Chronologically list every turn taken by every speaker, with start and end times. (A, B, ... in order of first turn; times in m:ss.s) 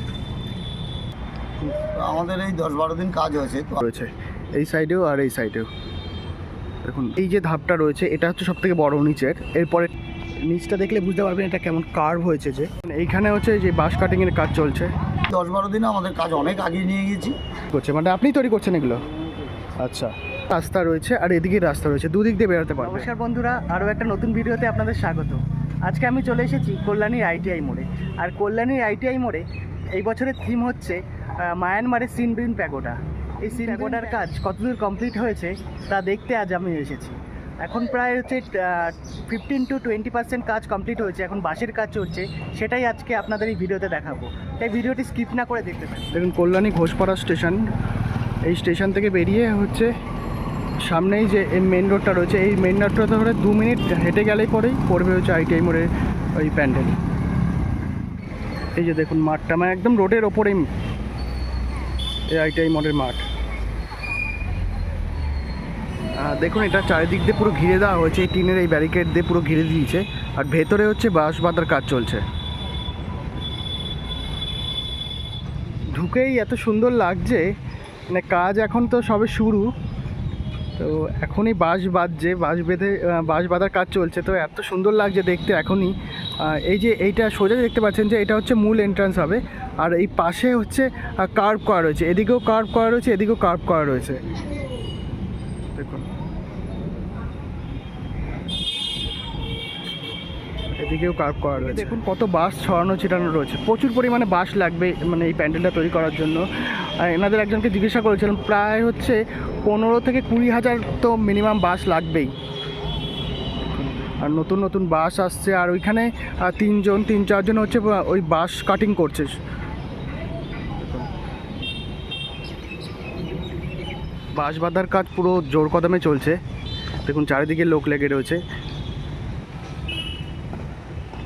0:01.8-0:03.8 A
0:03.8-0:05.7 B
0:06.8-0:09.9 B
0:10.5-0:14.9 B
0:15.3-0:17.4 A
0:17.7-0:19.0 B
0:19.8-0:23.1 B
0:22.8-0:29.4 C
0:30.0-0:46.1 C
0:31.6-0:32.0 B
0:33.5-0:34.3 B
0:46.1-0:47.6 B
0:48.5-0:49.9 B
0:50.8-0:57.0 B
0:58.8-1:00.7 B
1:02.3-1:03.2 B
1:06.2-1:12.2 B
1:15.9-1:17.5 B
1:18.1-1:19.7 B
1:20.8-1:34.2 B
1:35.7-1:36.1 B
1:40.8-1:52.3 B
1:53.8-1:59.4 B
2:00.8-2:01.1 B
2:04.4-2:06.4 B
2:07.0-2:08.4 B